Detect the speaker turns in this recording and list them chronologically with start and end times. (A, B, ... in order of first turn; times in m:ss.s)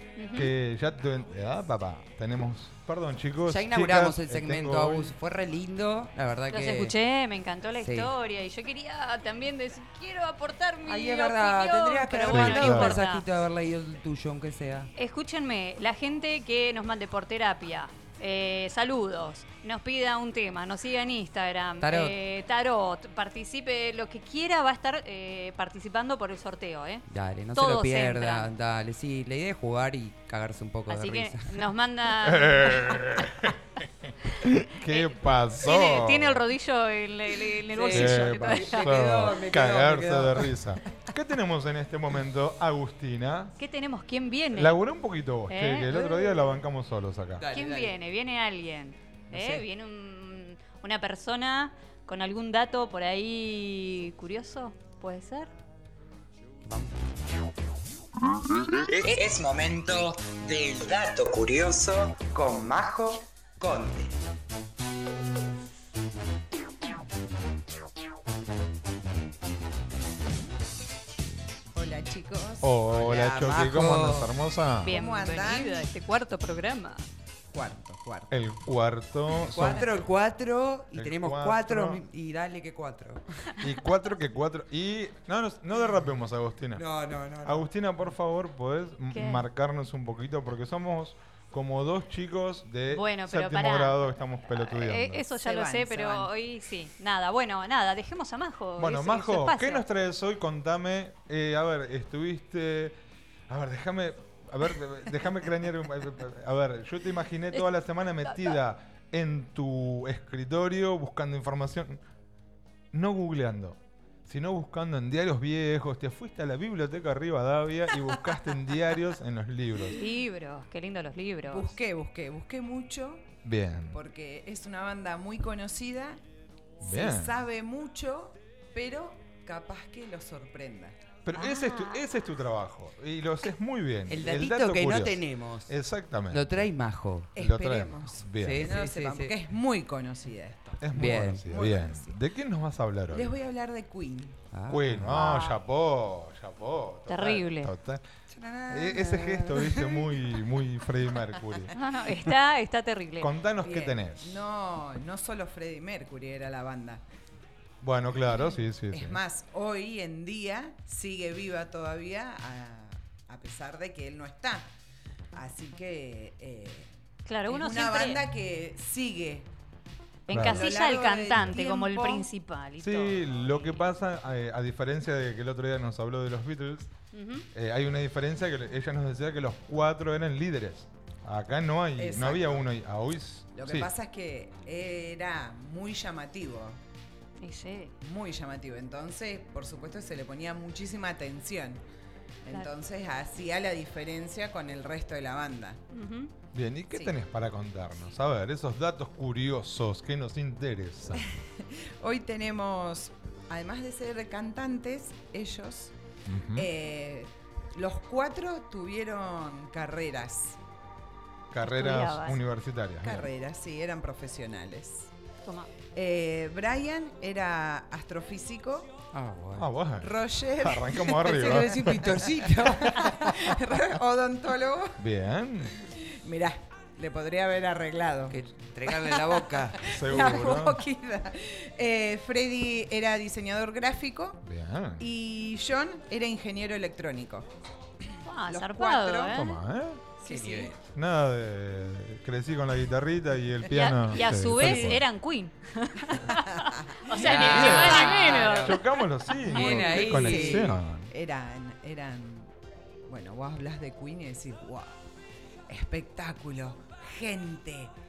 0:00.2-0:00.5 A
0:00.3-0:05.1 B
0:03.5-0:06.9 C
0:06.5-0:13.2 A
0:07.8-0:08.1 C
0:10.9-0:14.9 C
0:12.3-0:13.0 B
0:15.0-0:28.5 A
0:21.8-0:22.1 C
0:27.1-0:31.6 C
0:30.9-0:33.1 A
0:32.2-0:36.4 B
0:34.9-0:38.9 A
0:37.7-0:40.5 C
0:37.9-0:43.5 B
0:43.6-0:44.8 A
0:44.5-0:47.4 B
0:45.5-0:46.6 A
0:47.4-0:47.9 C
0:47.5-0:55.5 A
0:49.3-0:49.6 C
0:58.9-1:04.1 D
1:11.7-1:12.8 E
1:12.6-1:14.9 B
1:12.9-1:14.3 C
1:14.8-1:17.0 A
1:14.9-1:15.9 E
1:17.5-1:18.3 E
1:18.3-1:19.9 B
1:19.5-1:19.8 E
1:19.5-1:23.5 C
1:20.9-1:22.0 B
1:23.6-1:26.8 B
1:26.8-1:27.6 C
1:27.4-1:35.2 B
1:29.1-1:29.4 A
1:32.9-1:39.8 A
1:35.4-1:36.3 E
1:38.8-1:43.0 B
1:43.5-1:52.0 B
1:52.9-2:00.0 B
1:59.9-2:01.7 A
2:01.5-2:03.3 E
2:03.4-2:04.0 B
2:03.9-2:06.2 E
2:06.8-2:11.0 E
2:06.8-2:07.3 B
2:11.2-2:16.7 B
2:11.3-2:12.0 A
2:14.1-2:15.8 C
2:16.3-2:17.3 C
2:17.3-2:18.7 B
2:17.3-2:20.9 E
2:18.4-2:19.3 C
2:20.8-2:23.3 B
2:20.9-2:21.4 C
2:21.4-2:22.2 E
2:23.1-2:24.4 E
2:24.5-2:25.1 C
2:24.7-2:28.0 B
2:25.1-2:25.6 A
2:27.1-2:27.7 A
2:28.3-2:30.0 C
2:28.7-2:31.7 B
2:31.8-2:33.3 A
2:33.2-2:34.4 B
2:33.6-2:37.0 E
2:37.8-2:39.2 B
2:38.9-2:44.7 E
2:45.3-2:46.9 E
2:47.2-2:48.2 A
2:47.5-2:49.5 E
2:50.3-2:53.6 A
2:50.3-2:50.7 B
2:50.3-2:52.3 E
2:52.8-2:56.9 B
2:57.1-2:57.5 A
2:57.5-3:03.9 B
3:02.0-3:02.7 E
3:03.5-3:06.8 E
3:07.4-3:07.9 A
3:08.0-3:11.8 E
3:12.4-3:15.8 E
3:15.9-3:16.3 A
3:16.5-3:21.2 B
3:21.4-3:25.9 E
3:26.2-3:26.7 B
3:26.5-3:30.6 E
3:31.5-3:33.3 B
3:31.6-3:32.4 A
3:33.0-3:35.1 E
3:36.0-3:38.9 E
3:39.1-3:43.5 C
3:39.5-3:42.1 B
3:40.2-3:45.0 E
3:45.0-3:45.7 B
3:46.2-3:54.4 E
3:48.3-3:49.8 C
3:49.8-3:50.8 B
3:54.4-3:55.0 B
3:55.0-3:57.5 E
3:58.0-3:59.4 E
3:58.2-3:59.6 A
3:59.3-4:00.1 B
4:00.2-4:00.8 C
4:00.2-4:00.7 E
4:00.8-4:05.0 B
4:03.7-4:08.8 A
4:04.5-4:05.0 E
4:06.3-4:08.2 E
4:07.2-4:08.8 C
4:07.5-4:11.1 B
4:09.5-4:10.7 C
4:09.5-4:12.5 E
4:13.0-4:15.0 E
4:15.7-4:17.9 E